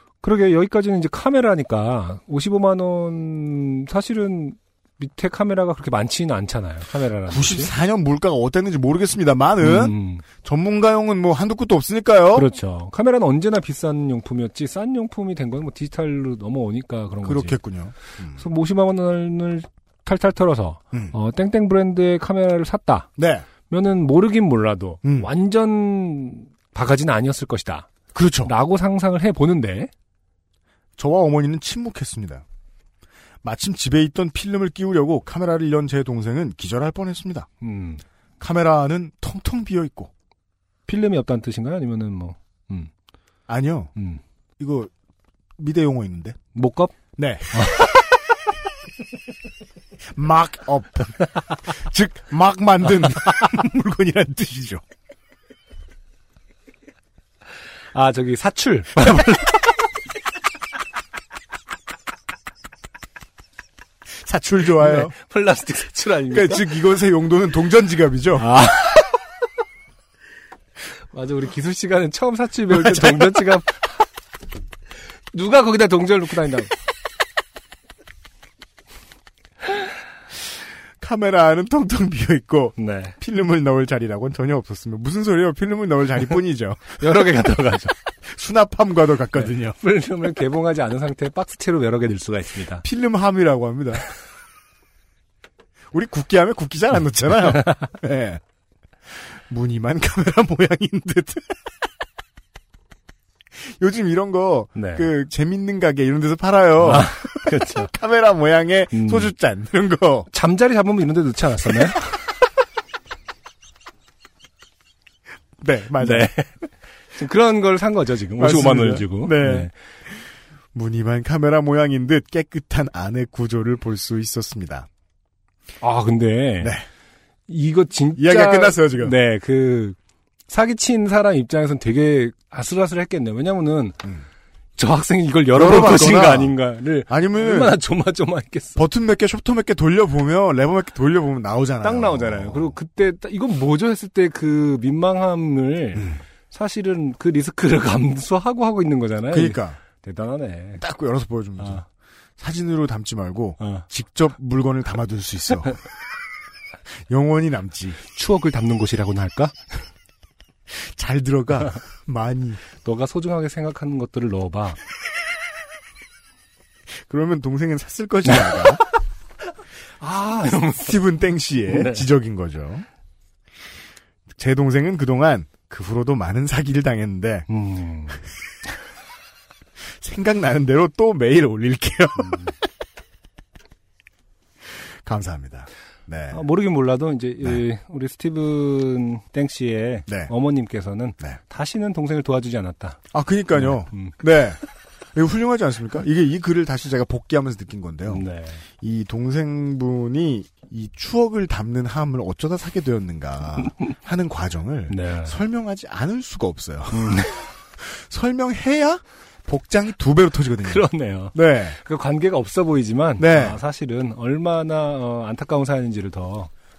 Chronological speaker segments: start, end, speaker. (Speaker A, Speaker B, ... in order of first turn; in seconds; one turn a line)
Speaker A: 0.2-7.7
Speaker B: 7.3-12.5
Speaker A: 9.6-10.2
Speaker A: 12.3-17.6
Speaker B: 17.2-18.4
Speaker A: 18.4-23.1
Speaker B: 23.2-23.5
Speaker A: 23.7-27.9
Speaker B: 25.0-25.3
Speaker B: 28.1-28.5
Speaker A: 28.4-29.9
Speaker B: 31.0-32.4
Speaker B: 33.4-37.5
Speaker A: 37.6-38.0
Speaker B: 38.4-40.1
Speaker A: 40.9-42.9
Speaker B: 43.5-43.9
Speaker A: 44.0-44.2
Speaker B: 44.6-44.9
Speaker B: 45.6-46.4
Speaker A: 46.5-46.9
Speaker B: 47.2-48.0
Speaker A: 47.5-47.9
Speaker B: 50.1-54.8
Speaker A: 57.9-59.7
Speaker B: 64.2-65.1
Speaker A: 64.8-66.8
Speaker B: 66.3-68.6
Speaker A: 68.4-69.2
Speaker A: 71.1-73.8
Speaker B: 72.7-73.6
Speaker A: 75.3-76.7
Speaker B: 81.0-87.3
Speaker A: 82.8-83.2
Speaker A: 87.0-87.9
Speaker B: 88.2-89.8
Speaker A: 89.4-92.8
Speaker B: 92.8-94.0
Speaker B: 95.9-98.4
Speaker B: 99.5-101.5
Speaker B: 103.6-110.3
Speaker A: 104.8-105.1
Speaker A: 106.8-107.9
Speaker A: 108.9-109.3
Speaker A: 110.3-112.2
Speaker B: 115.6-116.3
Speaker A: 116.0-119.7
Speaker B: 118.4-119.7
Speaker B: 120.7-124.9
Speaker A: 125.8-126.8
Speaker B: 126.6-126.8
Speaker A: 127.5-130.0
Speaker B: 128.2-129.2
Speaker A: 130.5-134.0
Speaker A: 134.8-138.8
Speaker B: 135.5-136.6
Speaker B: 137.1-137.8
Speaker B: 138.8-142.7
Speaker A: 141.8-150.8
Speaker B: 145.9-146.2
Speaker B: 149.3-149.8
Speaker B: 150.8-151.8
Speaker A: 151.6-151.8
Speaker B: 152.4-155.8
Speaker A: 153.6-153.8
Speaker B: 157.1-158.0
Speaker A: 158.1-159.5
Speaker B: 160.7-162.6
Speaker A: 162.8-164.8
Speaker B: 167.0-168.8
Speaker A: 168.3-168.7
Speaker A: 170.0-171.0
Speaker B: 170.7-172.8
Speaker A: 171.7-172.1
Speaker B: 174.3-177.5
Speaker A: 177.5-178.2
Speaker B: 180.0-182.5
Speaker B: 185.0-186.4
Speaker A: 186.3-193.0
Speaker B: 190.1-190.3
Speaker B: 193.1-194.6
Speaker A: 193.5-194.1
Speaker B: 195.1-198.2
Speaker A: 198.1-198.6
Speaker B: 198.8-211.8
Speaker A: 204.9-205.4
Speaker A: 206.9-207.5
Speaker A: 210.6-216.5
Speaker B: 213.2-213.6